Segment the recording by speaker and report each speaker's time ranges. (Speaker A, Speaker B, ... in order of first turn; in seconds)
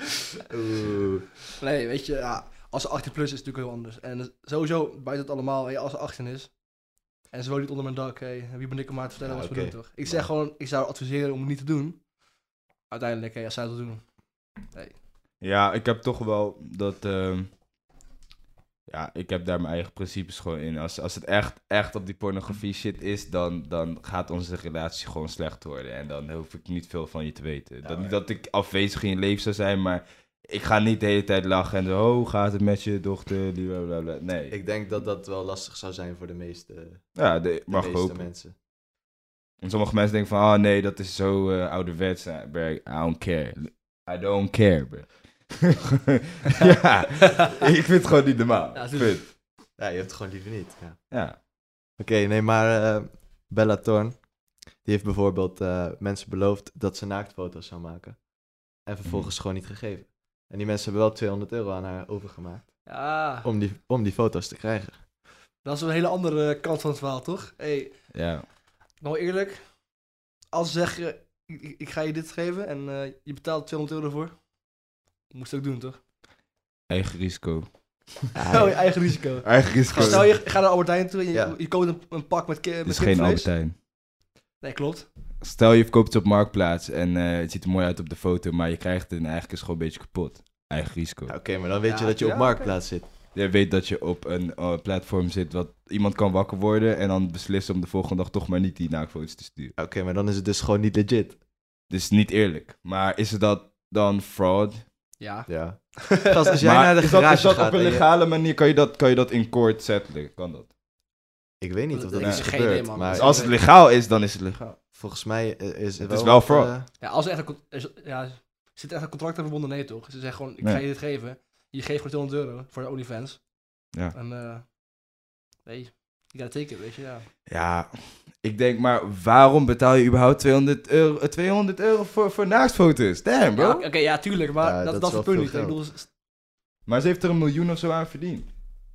Speaker A: 0.5-1.3, 9.2-10.3, 27.8-28.2, 34.5-38.5, 49.8-65.1, 78.3-78.8, 79.9-80.7, 81.3-81.6, 91.3-93.1, 99.8-101.4, 105.5-108.1, 111.6-113.6, 114.9-116.9, 134.6-135.8
Speaker B: 1.6-12.1, 12.9-15.0, 48.7-49.4, 62.9-63.5, 65.6-68.2, 69.0-70.0, 70.5-74.5, 75.3-76.0, 78.5-83.5, 84.6-85.1, 91.8-92.8, 105.2-106.4, 111.9-113.6, 117.0-125.1, 125.6-127.3, 133.6-136.1
Speaker C: 15.4-17.5, 18.9-34.6, 37.1-38.2, 39.6-45.8, 46.5-49.3, 51.1-51.4, 59.0-59.3, 68.1-68.5, 76.9-78.3, 79.4-80.3, 82.8-83.8, 85.4-91.4, 93.3-99.8, 101.9-104.9, 106.6-110.7, 112.2-114.8, 116.0-116.7, 127.5-133.9, 136.9-138.5